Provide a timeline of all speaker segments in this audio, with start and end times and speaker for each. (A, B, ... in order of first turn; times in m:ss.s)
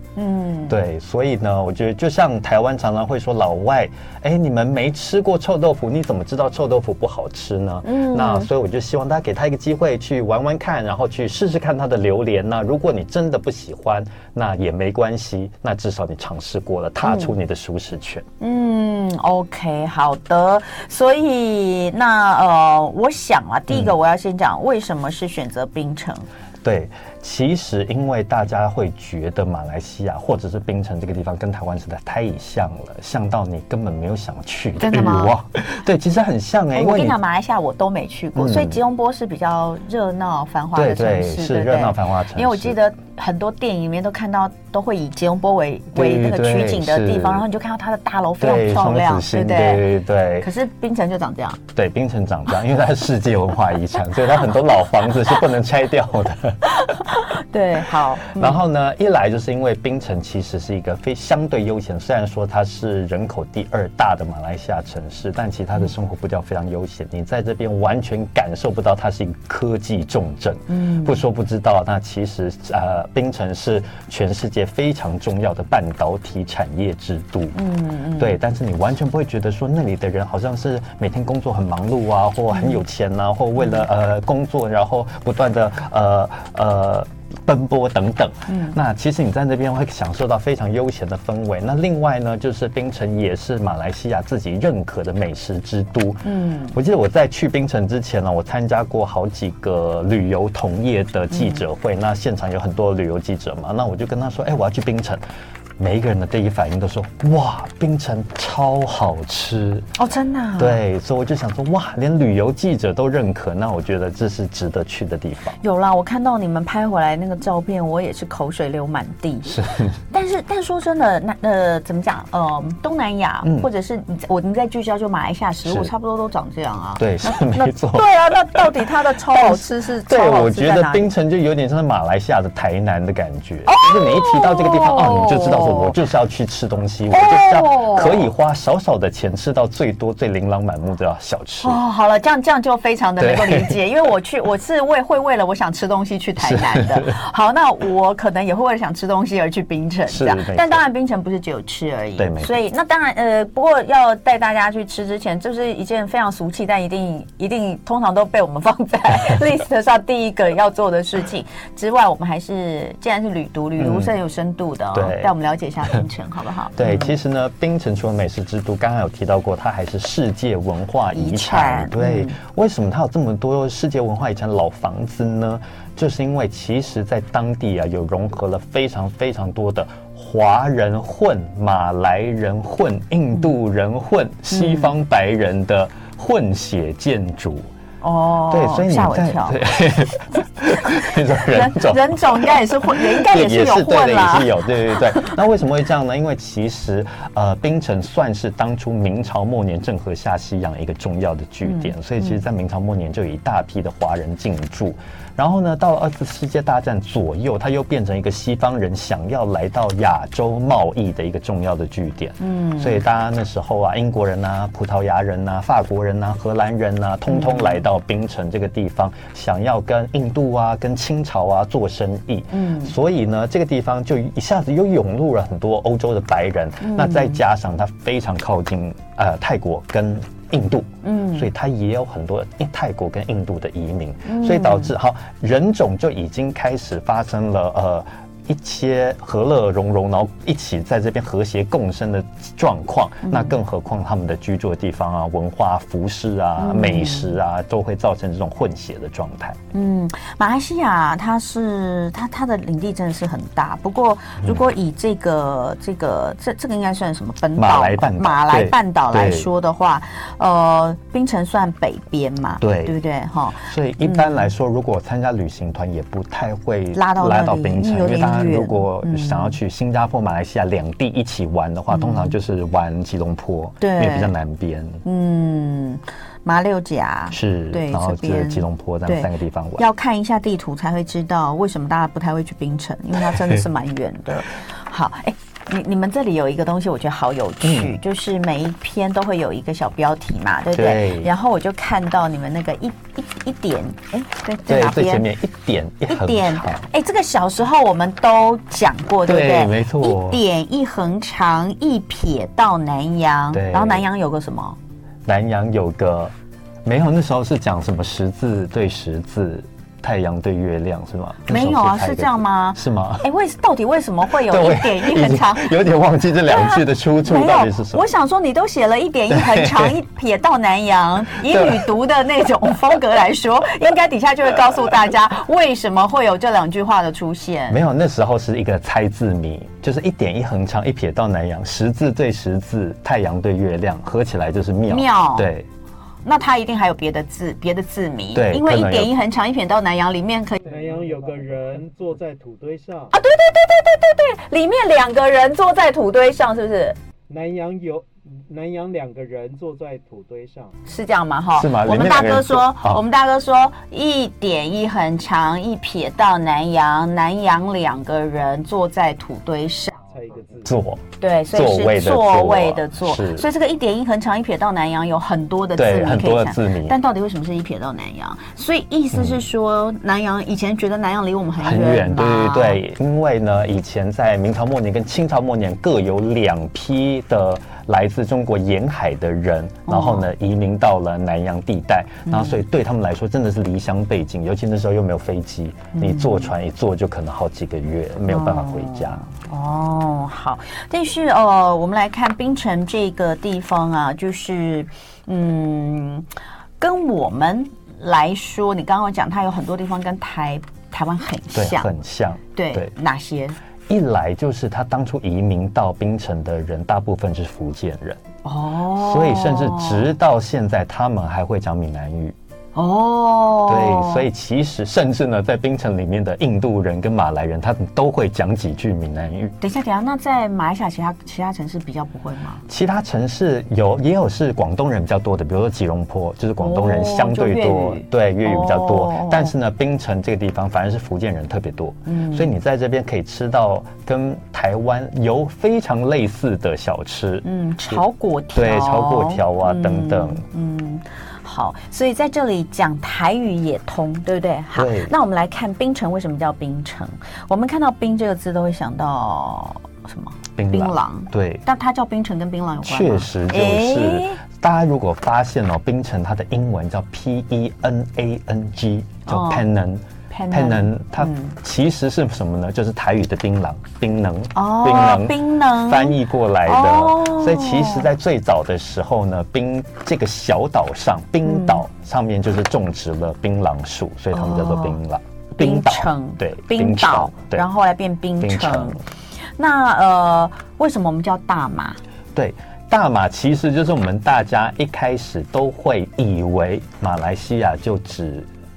0:00.2-0:00.8 A
0:00.7-0:18.3 B
0:07.8-0:08.5 A
0:17.0-0:17.3 A
0:18.4-0:26.3 A
0:26.6-0:37.2 B
0:34.8-0:35.4 A
0:36.7-0:51.6 A
0:38.4-0:38.8 B
0:40.8-0:42.8 B
0:45.9-0:47.4 B
0:48.4-0:50.5 B
0:51.7-0:56.6 B
0:56.8-0:58.6 A
0:58.2-1:17.6 B
1:10.7-1:11.2 A
1:17.5-1:18.4 A
1:18.2-1:45.2 B
1:22.5-1:22.8 A
1:28.5-1:28.8 A
1:36.2-1:36.8 A
1:41.3-1:41.6 A
1:45.8-1:49.9 B
1:50.0-1:50.8 A
1:50.6-1:55.6 B
1:55.6-2:11.1 A
1:59.5-2:00.0 B
2:05.7-2:05.9 B
2:07.0-2:08.6 B
2:09.4-2:21.8 B
2:13.7-2:16.0 A
2:17.1-2:18.3 A
2:21.6-2:47.2 A
2:23.2-2:23.8 B
2:26.4-2:27.2 B
2:30.1-2:30.8 B
2:32.2-2:32.5 B
2:43.8-2:44.2 B
2:44.9-2:45.3 B
2:46.8-3:07.7 B
2:51.1-2:52.4 A
3:04.5-3:04.9 A
3:08.0-3:09.6 A
3:08.5-4:09.6 B
3:10.9-3:15.4 A
3:21.6-3:22.4 A
3:32.4-3:33.0 A
3:37.3-3:37.8 A
3:42.5-3:43.0 A
3:46.8-3:47.4 A
3:51.0-3:51.5 A
3:54.2-3:54.9 A
4:03.3-4:03.5 A
4:06.6-4:07.4 A
4:09.7-4:24.5 A
4:17.6-4:19.5 B
4:22.6-4:23.0 B
4:23.6-4:35.0 B
4:26.9-4:29.6 A
4:31.9-4:32.4 A
4:33.8-4:34.3 A
4:35.0-4:55.3 A
4:37.3-4:39.8 B
4:47.6-4:47.9 B
4:50.7-4:51.3 B
4:54.7-4:56.9 B
4:56.1-5:04.8 A
4:59.3-5:00.4 B
5:03.5-5:04.1 B
5:05.3-5:06.3 B
5:06.8-5:13.3 B
5:11.5-5:15.7 A
5:14.3-5:18.1 B
5:16.5-5:27.8 A
5:19.3-5:20.0 B
5:21.4-5:21.9 B
5:27.7-5:35.7 B
5:34.9-5:35.5 A
5:36.2-5:40.6 A
5:38.3-5:39.1 B
5:40.7-5:43.1 C
5:43.1-5:47.0 A
5:47.3-5:50.7 C
5:50.9-6:00.0 A
5:51.6-5:53.0 B
6:00.1-6:00.7 C
6:00.7-6:03.5 B
6:01.2-6:12.8 A
6:05.8-6:07.0 B
6:11.6-6:29.2 B
6:19.9-6:20.3 A
6:22.3-6:22.6 A
6:25.9-6:26.5 A
6:28.3-6:36.3 A
6:36.8-6:41.9 A
6:41.5-6:42.9 B
6:42.6-6:43.6 A
6:43.9-6:48.2 B
6:48.4-6:50.1 A
6:48.9-6:52.4 B
6:52.8-6:54.2 A
6:53.7-6:59.6 B
6:59.6-7:02.6 A
7:02.7-7:18.0 B
7:06.6-7:09.5 A
7:12.1-7:12.5 A
7:17.4-7:34.4 A
7:18.5-7:20.4 B
7:24.8-7:25.1 B
7:30.6-7:31.6 B
7:32.8-7:57.6 B
7:39.3-7:39.6 A
7:40.3-7:41.6 A
7:44.6-7:48.1 A
7:51.4-7:51.8 A
7:54.3-7:55.0 A
7:55.6-7:59.0 A
7:58.4-7:59.0 B
7:59.6-8:02.0 A
8:02.4-8:08.5 B